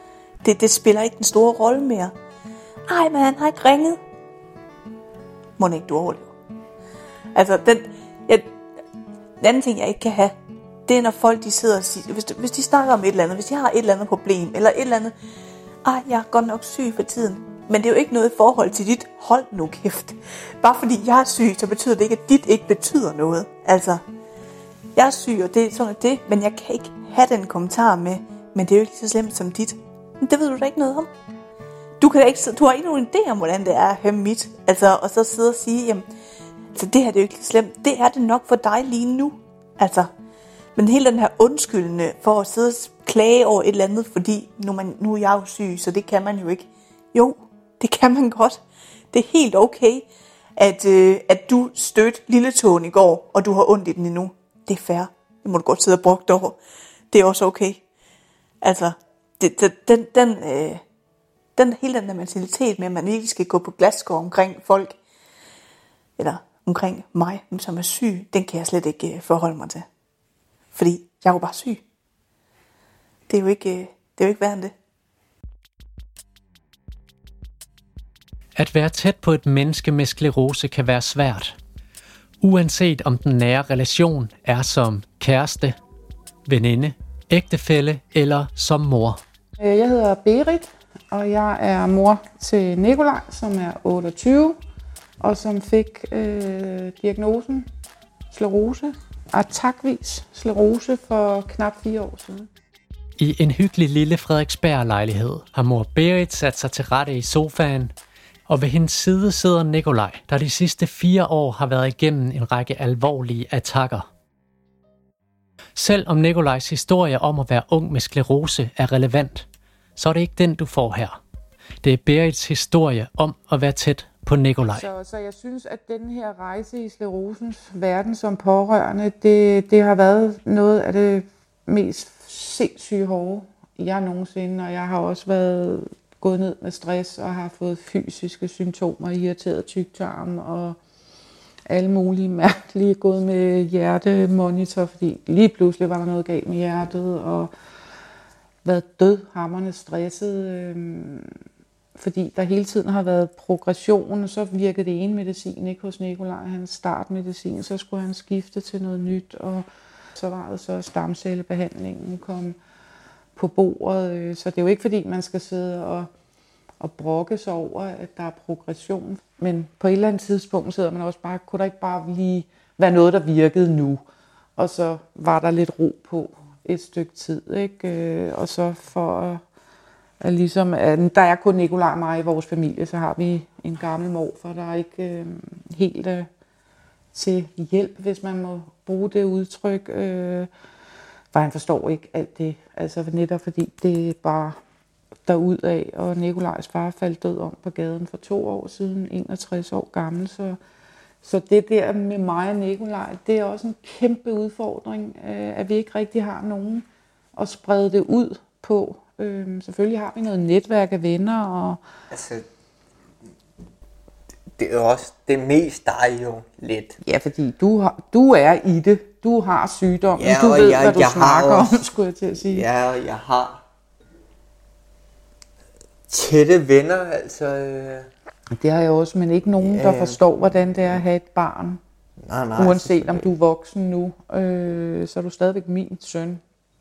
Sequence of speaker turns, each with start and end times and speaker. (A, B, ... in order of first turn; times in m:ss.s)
0:00.4-0:02.1 A
0:02.9-0:04.0 A
0:05.6-0:06.3 A
0:07.3-0:08.4 A
0:09.4-0:10.3 A
0:10.9-0:15.1 A
0:15.8-0:24.0 A
0:24.9-0:31.1 A
0:32.0-0:36.0 A
0:36.7-0:40.1 A
0:40.8-0:48.6 A
0:49.1-0:56.6 A
0:57.1-0:57.8 A
0:58.6-1:00.8 A
1:01.6-1:05.0 A
1:06.2-1:09.8 A
1:10.7-1:11.8 A
1:13.3-1:14.7 A
1:18.6-1:21.5 B
1:22.4-1:25.7 B
1:26.4-1:29.2 B
1:29.6-1:34.6 C
1:35.2-1:37.7 C
1:38.3-1:42.5 C
1:43.2-1:47.9 B
1:48.5-1:54.1 B
1:55.8-2:01.2 B
2:01.8-2:04.8 B
2:04.7-2:20.8 C
2:21.7-2:27.5 C
2:28.6-2:31.3 C
2:31.9-2:42.6 C
2:43.4-2:46.1 C
2:46.8-2:54.0 C
2:54.6-2:59.4 C
3:00.2-3:06.3 C
3:07.1-3:10.5 C
3:11.3-3:14.6 C
3:15.2-3:20.6 C
3:21.2-3:26.8 C
3:27.4-3:31.8 C
3:32.1-3:32.4 D
3:34.6-3:37.0 D
3:37.0-3:42.7 C
3:40.2-3:41.9 D
3:42.5-3:43.6 D
3:46.1-3:48.1 D
3:48.5-3:51.8 C
3:49.6-3:50.2 D
3:52.2-3:53.3 D
3:52.6-3:56.4 C